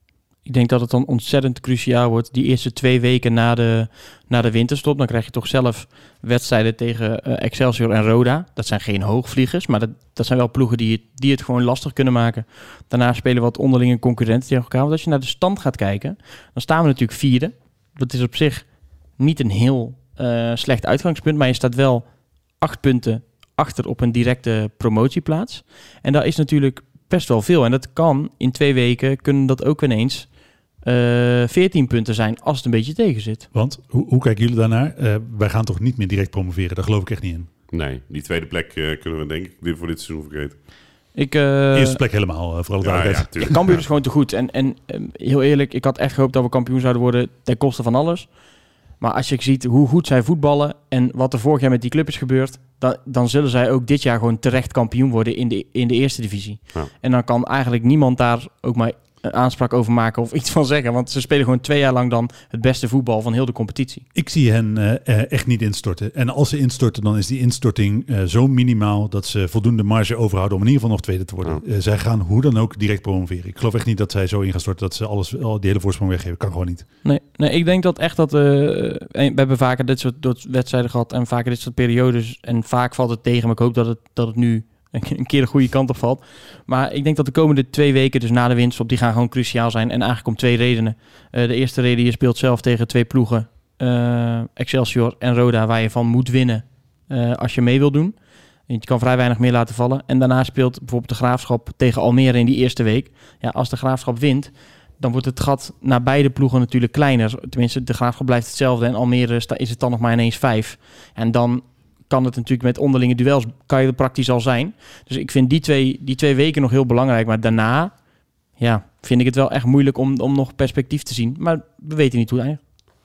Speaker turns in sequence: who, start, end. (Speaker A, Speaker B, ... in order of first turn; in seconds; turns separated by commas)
Speaker A: 0.4-33.5, Speaker B: 33.5-37.5, Speaker C: 37.7-40.6, Speaker A: 41.1-42.0, Speaker B: 41.7-43.6, Speaker C: 42.8-43.8, Speaker A: 43.4-64.0, Speaker B: 64.1-76.9, Speaker A: 77.0-122.6